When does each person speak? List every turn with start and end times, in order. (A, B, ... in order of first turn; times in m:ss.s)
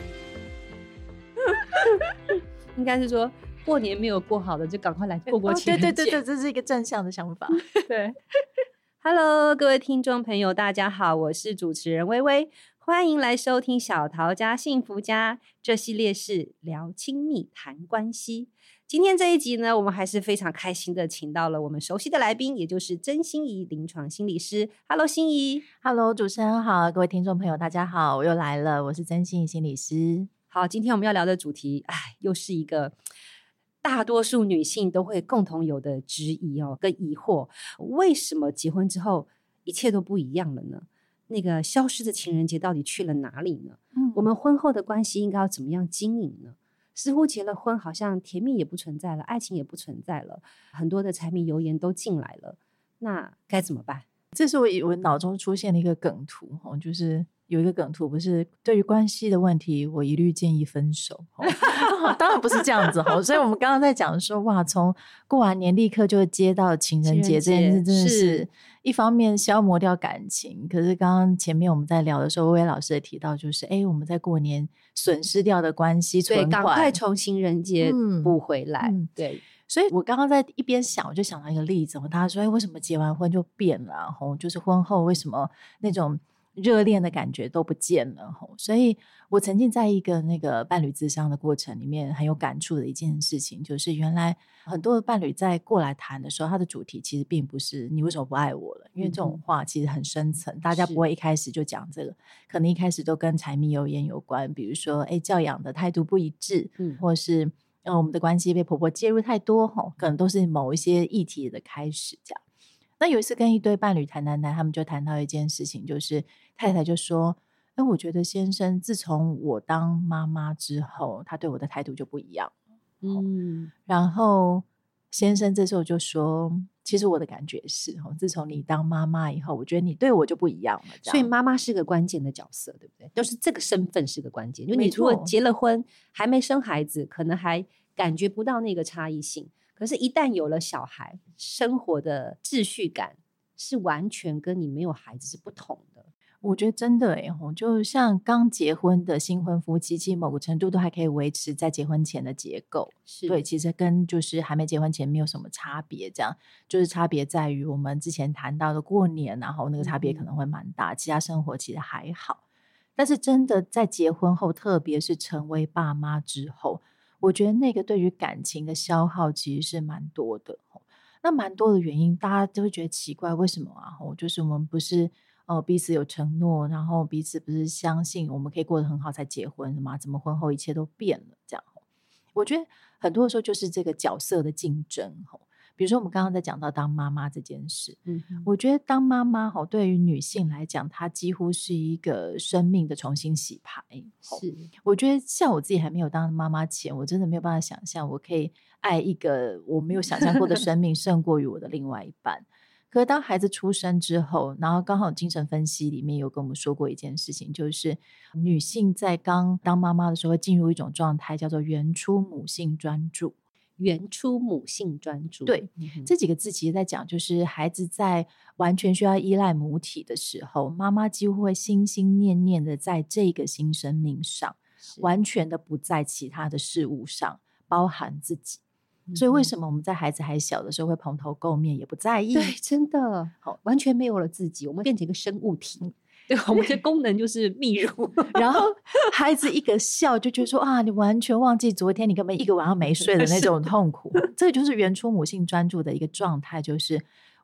0:01.6-0:02.0 A
0:02.8-0:06.2 A
0:05.4-0:07.7 B
0:07.7-0:08.2 A
0:09.0-0:25.6 A
0:25.8-0:30.3 B
0:30.5-0:32.9 A
0:33.8-0:54.0 A
0:43.9-0:44.2 B
0:54.3-1:17.0 B
1:01.5-1:01.8 A
1:07.0-1:08.4 A
1:16.3-1:19.4 A
1:17.8-1:52.4 B
1:39.0-1:39.4 A
1:40.7-1:41.0 A
1:53.0-2:02.5 B
2:03.0-2:03.7 A
2:03.9-2:11.3 B
2:11.0-2:26.1 A
2:14.7-2:15.3 B
2:26.4-2:42.4 B
2:33.1-2:33.4 A
2:39.8-2:40.2 A
2:43.0-3:01.8 B
3:02.3-3:33.3 B
3:08.0-3:08.5 A
3:14.3-3:14.7 A
3:33.8-3:36.1 A
3:35.5-3:48.6 B
3:49.1-3:49.5 A
3:49.1-3:52.5 B
3:52.3-3:58.6 A
3:58.3-4:07.0 B
4:03.0-4:03.5 A